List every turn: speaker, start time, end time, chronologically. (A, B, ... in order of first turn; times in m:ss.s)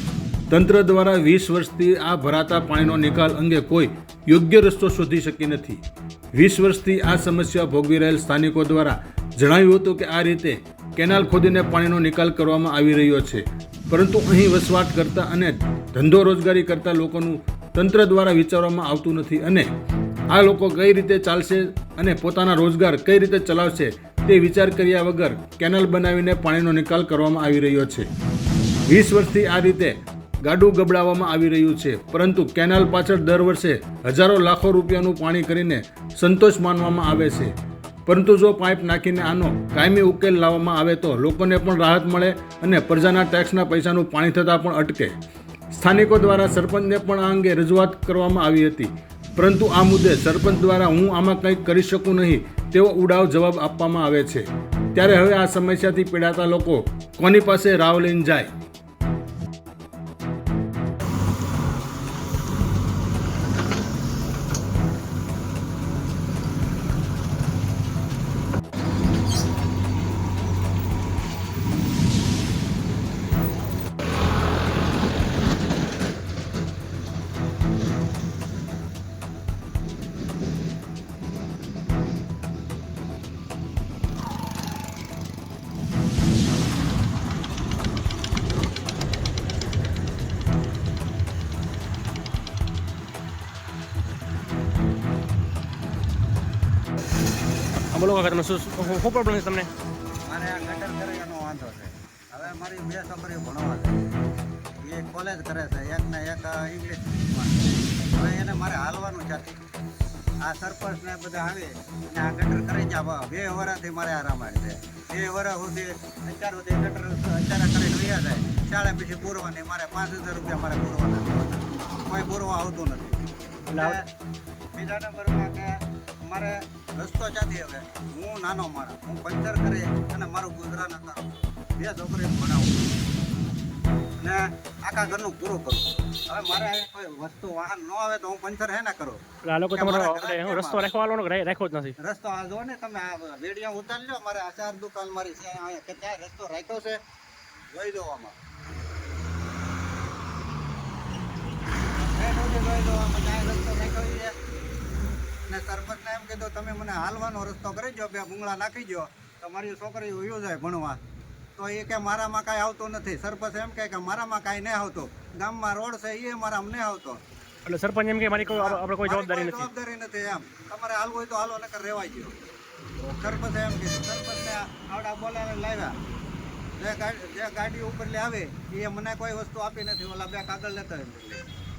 0:00.5-0:05.8 A
0:06.3-0:19.7 A
0:20.3-0:28.1 A
0:28.9-0:37.5 A
0:38.1-0:45.1 A
0:45.7-0:58.5 A
1:37.9-1:39.7 B
1:40.3-1:44.0 C
1:44.9-1:49.6 C
1:50.4-2:03.2 C
2:03.7-2:04.0 B
2:03.8-2:04.1 C
2:04.8-2:05.8 C
2:06.3-2:13.0 C
2:14.2-2:20.9 C
2:19.4-2:22.0 B
2:22.0-2:27.0 C
2:27.7-2:28.4 C
2:32.1-2:34.3 C
2:35.5-2:41.0 C
2:41.6-2:47.2 C
2:47.7-2:49.7 B
2:48.5-2:52.4 C
2:53.0-2:56.0 C
2:56.8-3:01.4 C